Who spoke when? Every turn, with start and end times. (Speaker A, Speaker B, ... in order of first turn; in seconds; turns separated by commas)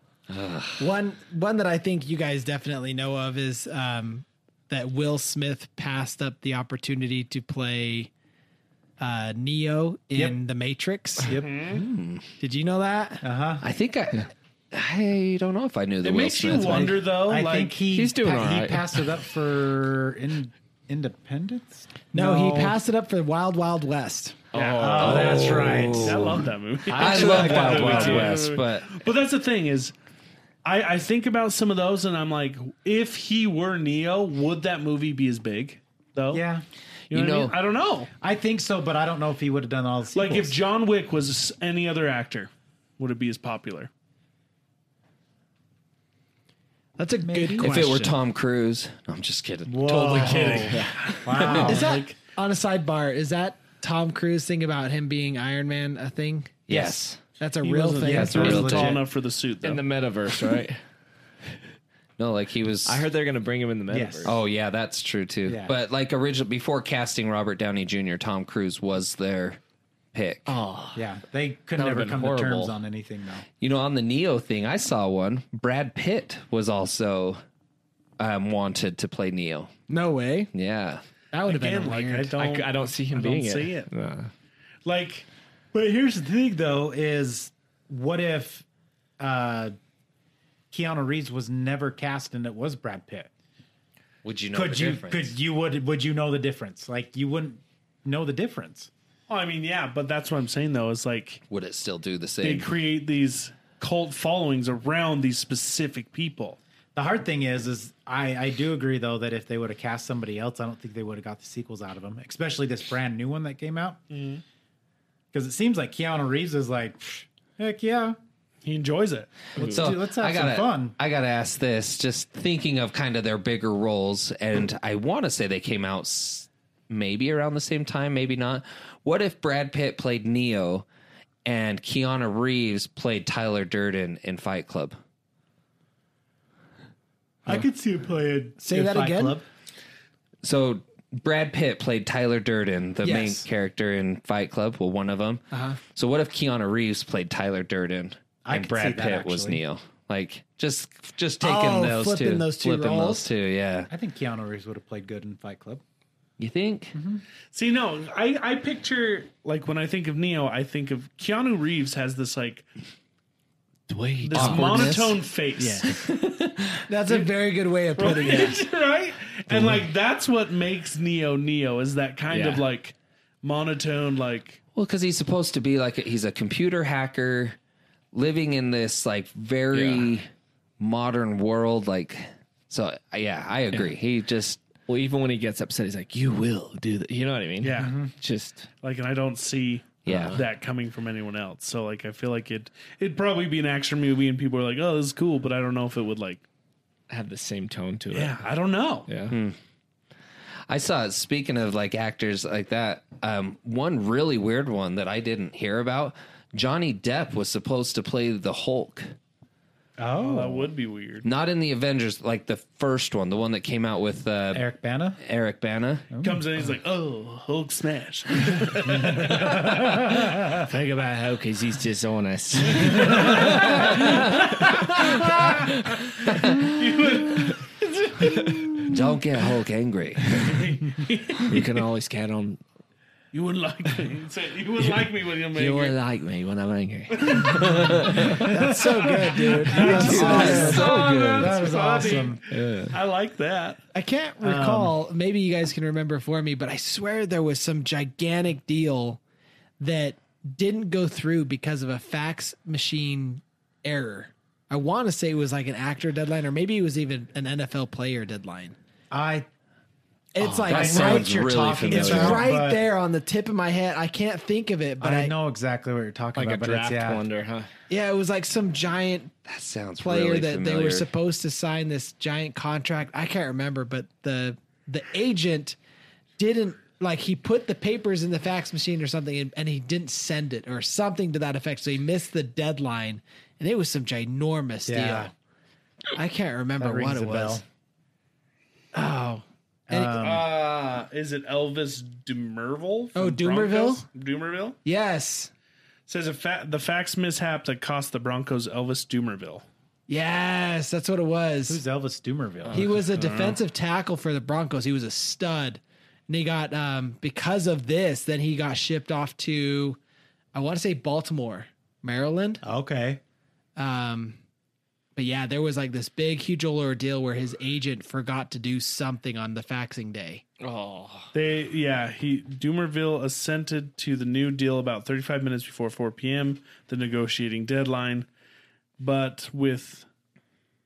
Speaker A: 0.3-0.9, Speaker B: 0.8-8.1, Speaker B: 9.0-11.4, Speaker C: 10.1-10.4, Speaker C: 11.2-11.8, Speaker D: 11.3-11.8, Speaker A: 11.7-12.2, Speaker B: 12.4-13.2, Speaker C: 13.2-13.6, Speaker A: 13.6-17.0, Speaker D: 16.0-17.9, Speaker C: 16.5-22.8, Speaker E: 17.9-19.0, Speaker B: 22.1-24.4, Speaker E: 24.5-25.5, Speaker D: 24.5-29.9, Speaker C: 24.8-26.4, Speaker A: 25.0-28.9, Speaker C: 27.0-28.3, Speaker D: 30.6-36.4, Speaker C: 36.3-36.6, Speaker A: 37.1-37.6, Speaker D: 37.1-38.1, Speaker C: 38.2-40.6, Speaker D: 40.1-43.9, Speaker B: 47.0-48.1, Speaker C: 47.2-47.8, Speaker A: 47.6-50.8, Speaker C: 49.7-52.0, Speaker D: 50.1-52.2, Speaker B: 51.4-58.9, Speaker A: 56.7-57.2, Speaker D: 57.6-59.8, Speaker C: 58.0-59.1, Speaker A: 58.3-58.8, Speaker E: 59.6-60.8, Speaker A: 62.2-63.1, Speaker E: 62.9-64.4, Speaker C: 63.9-64.3, Speaker A: 64.2-69.6, Speaker C: 65.5-65.7, Speaker A: 70.1-70.6, Speaker E: 70.5-70.9, Speaker C: 70.9-73.5, Speaker A: 71.8-72.7, Speaker A: 73.6-77.4, Speaker A: 78.2-79.7, Speaker B: 79.9-80.5, Speaker A: 80.5-81.0, Speaker B: 81.3-82.4, Speaker D: 81.5-83.9, Speaker E: 82.3-84.3, Speaker D: 84.8-85.3, Speaker C: 85.7-88.7, Speaker C: 89.2-89.7, Speaker C: 90.7-93.3, Speaker A: 94.2-95.4, Speaker C: 94.5-98.9, Speaker D: 99.3-101.4, Speaker A: 101.5-102.7, Speaker D: 102.4-106.6, Speaker C: 107.0-114.0, Speaker D: 114.1-114.4, Speaker C: 115.3-118.2, Speaker D: 118.6-119.5, Speaker C: 119.5-121.0, Speaker A: 119.6-130.9, Speaker A: 131.4-135.0, Speaker C: 137.4-139.5, Speaker B: 138.6-139.4, Speaker A: 140.4-153.9, Speaker B: 143.0-143.5, Speaker B: 145.5-145.8, Speaker C: 148.4-149.6, Speaker B: 151.4-153.3, Speaker C: 153.9-155.8, Speaker A: 156.4-157.0, Speaker C: 156.9-157.2, Speaker D: 157.5-162.7, Speaker E: 163.9-165.0, Speaker D: 164.2-166.0, Speaker B: 164.3-166.0, Speaker B: 166.9-168.6, Speaker D: 168.0-174.6, Speaker E: 169.5-169.8, Speaker E: 172.3-172.7, Speaker A: 174.7-177.6, Speaker A: 178.1-184.6, Speaker E: 179.7-180.1, Speaker E: 184.9-188.7, Speaker D: 187.6-188.1, Speaker C: 187.8-188.1, Speaker D: 188.8-196.4, Speaker A: 190.1-190.4, Speaker E: 190.1-190.4, Speaker E: 197.1-198.4, Speaker D: 198.1-199.1, Speaker E: 199.1-199.3, Speaker A: 199.3-199.6, Speaker A: 200.7-209.2, Speaker C: 210.0-210.7, Speaker D: 210.2-211.2, Speaker A: 211.2-214.7, Speaker C: 214.5-215.2, Speaker A: 215.2-216.1, Speaker C: 216.1-216.5, Speaker D: 216.2-219.8, Speaker C: 218.9-220.6, Speaker E: 220.5-227.6, Speaker D: 222.8-224.1, Speaker A: 223.9-224.2, Speaker D: 226.3-227.7, Speaker E: 228.2-228.9, Speaker A: 228.9-230.4, Speaker D: 230.4-231.7, Speaker E: 231.4-232.6, Speaker D: 233.3-236.0, Speaker E: 234.8-235.0, Speaker E: 235.5-238.5, Speaker D: 237.2-243.8, Speaker B: 238.3-240.9, Speaker C: 238.5-238.8, Speaker C: 239.6-242.4, Speaker E: 239.7-241.6, Speaker A: 240.0-241.2, Speaker E: 242.5-243.0, Speaker B: 243.9-249.2, Speaker C: 244.4-245.0, Speaker B: 249.8-258.8, Speaker C: 259.1-259.5, Speaker B: 260.3-265.3, Speaker C: 260.4-262.9, Speaker A: 260.6-262.5, Speaker C: 265.0-267.2, Speaker E: 266.4-267.7, Speaker B: 267.9-269.3, Speaker A: 269.5-271.1, Speaker B: 270.0-275.8, Speaker B: 276.4-285.3, Speaker C: 284.9-285.3, Speaker B: 286.1-287.6, Speaker C: 286.8-287.6, Speaker B: 288.9-290.2, Speaker C: 289.9-290.5, Speaker D: 290.1-294.8, Speaker B: 293.1-294.1, Speaker B: 294.9-295.5, Speaker D: 296.1-299.6, Speaker B: 300.1-301.8, Speaker C: 301.7-303.0, Speaker B: 302.7-310.0, Speaker D: 303.1-303.6, Speaker B: 310.5-312.6, Speaker C: 312.6-313.2, Speaker B: 313.8-314.4, Speaker B: 315.2-320.4, Speaker E: 320.6-321.3, Speaker D: 321.3-328.3, Speaker D: 329.0-330.1